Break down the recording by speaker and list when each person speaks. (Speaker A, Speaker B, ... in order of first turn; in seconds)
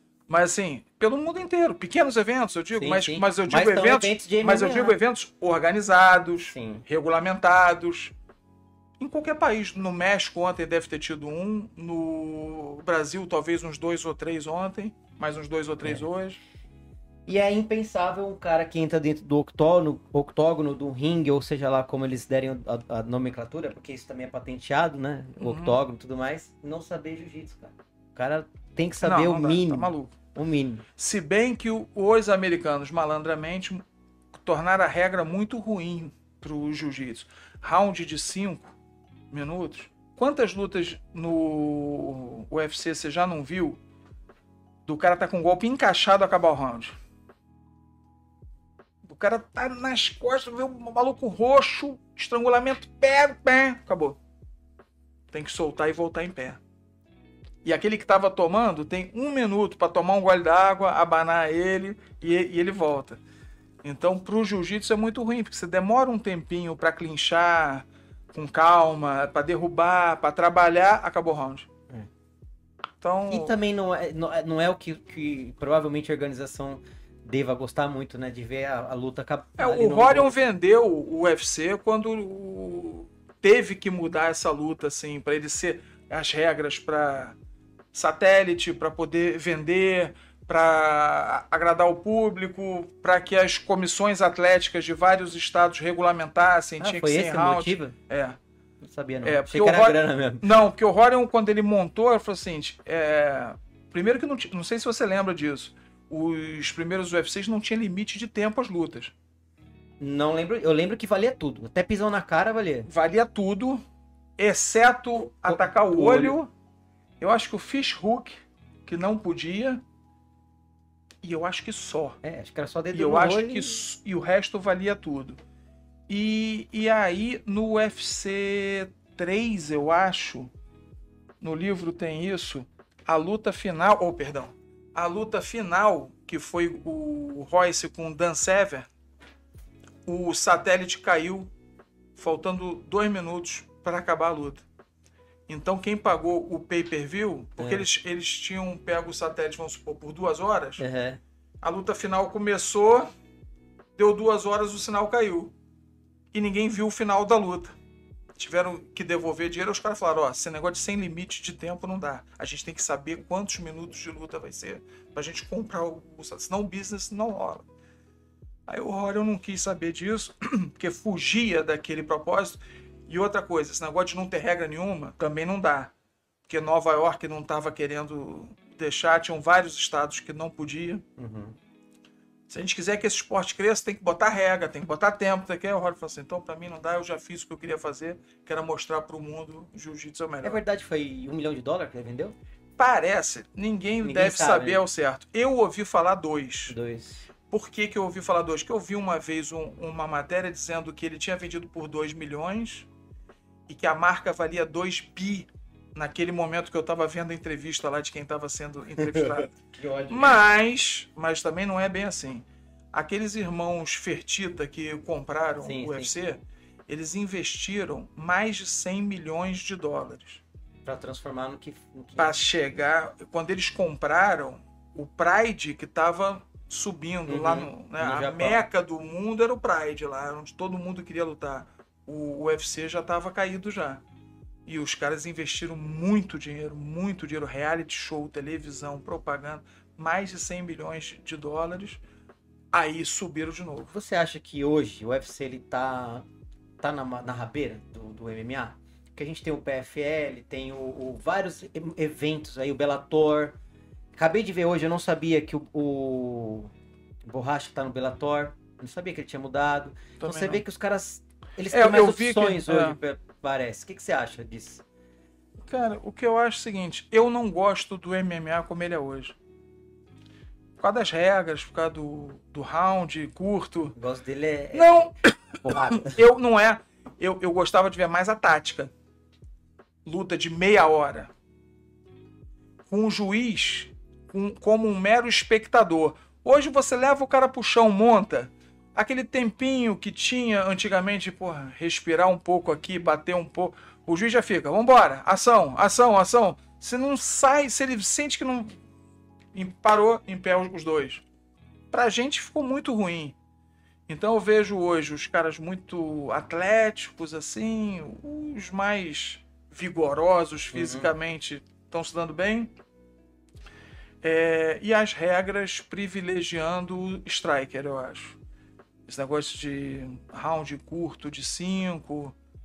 Speaker A: 0.3-8.2, 9.0-16.4, 25.4-25.8, 29.0-30.2, 31.0-38.8, 39.3-43.8, 44.9-47.0, 49.0-54.2, 55.3-56.6, 57.6-63.2, 63.8-71.7, 73.0-73.6, 79.6-87.3, 87.9-98.4, 99.2-109.1, 112.9-113.8, 114.4-116.5, 117.2-119.8, 121.2-122.2, 122.9-125.4, 126.1-130.5, 131.4-138.9, 140.1-141.5, 142.2-144.7, 145.5-150.8, 151.6-153.1, 154.0-155.5, 156.3-157.8, 158.4-167.7, 168.7-175.9, 176.5-181.0, 182.5-190.6, 192.8-196.8, 197.5-202.9, 203.7-209.5, 210.1-220.4, 222.2-234.0, 234.7-242.0, 242.7-243.9, 260.2-260.6, 261.7-263.0, 265.6-269.4, 270.8-274.0, 274.7-278.9, 280.1-281.3, 282.9-298.8, 299.5-301.2, 301.9-303.4, 304.1-312.7, 314.2-318.4, 319.1-322.4
Speaker B: 2.8-5.0, 6.5-6.8, 17.3-30.8, 73.3-80.3, 96.8-97.9, 98.8-100.5, 110.0-112.9, 115.5-116.4, 122.2-123.8, 147.6-147.9, 150.8-151.2, 181.2-181.6, 190.4-192.3, 194.0-194.8, 196.7-197.3, 209.1-210.4, 215.6-216.1, 220.8-222.3, 227.3-228.7, 243.9-246.3, 246.8-253.6, 254.2-256.7, 257.2-264.8, 273.9-275.1, 275.6-276.2, 310.7-311.1